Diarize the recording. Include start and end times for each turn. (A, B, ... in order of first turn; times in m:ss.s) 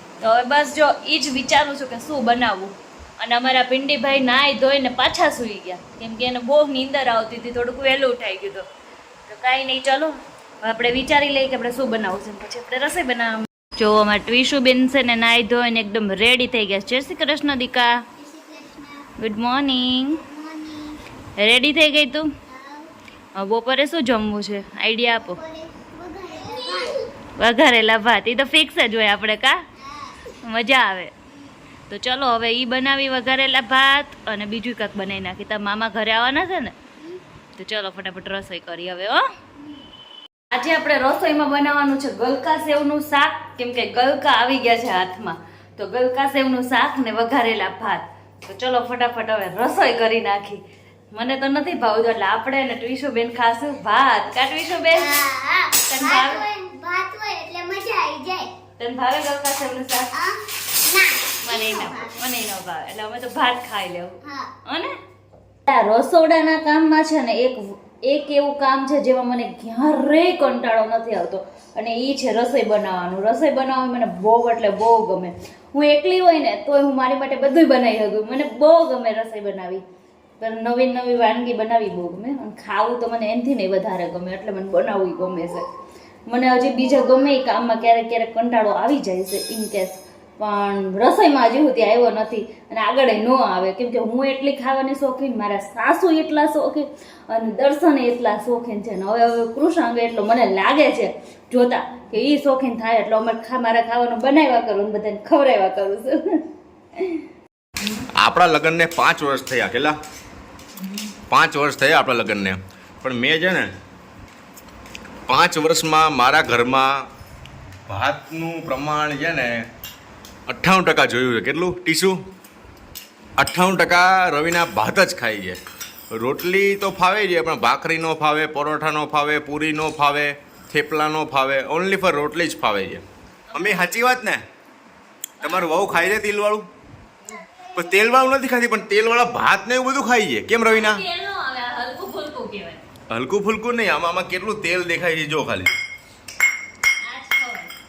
0:00.2-0:08.6 A
0:09.2-0:18.0 A
0:18.2-0:19.1 B
0:19.2-0:20.2 A
0:20.2-0:21.0 B
0:21.4-0:22.3 A
0:22.5-0:22.9 B
0:23.4-0:25.4 A
0:25.2-0:27.1 B
0:27.4-0:29.6 A
0:29.8-0:30.2 B
0:30.3-0:31.1 A
0:31.9-0:36.7 A
0:37.6-0:39.2 A
0:40.5-0:55.1 A
0:54.9-0:58.5 B
0:55.9-0:56.5 A
0:58.8-1:00.1 A
1:00.1-1:02.2 B
1:01.4-1:04.9 A
1:04.2-1:04.5 B
1:05.7-1:19.8 A
1:20.4-1:25.6 A
1:26.3-1:46.4 A
1:47.0-1:47.3 A
1:48.2-1:50.0 C
1:51.3-1:53.7 C
1:55.3-1:57.0 C
1:57.9-1:59.6 C
2:00.5-2:02.2 C
2:03.4-2:05.6 C
2:06.1-2:14.4 C
2:13.5-2:14.1 A
2:15.4-2:15.9 A
2:15.4-2:16.7 C
2:17.7-2:21.0 C
2:20.7-2:22.8 A
2:23.1-2:25.7 C
2:27.0-2:27.7 A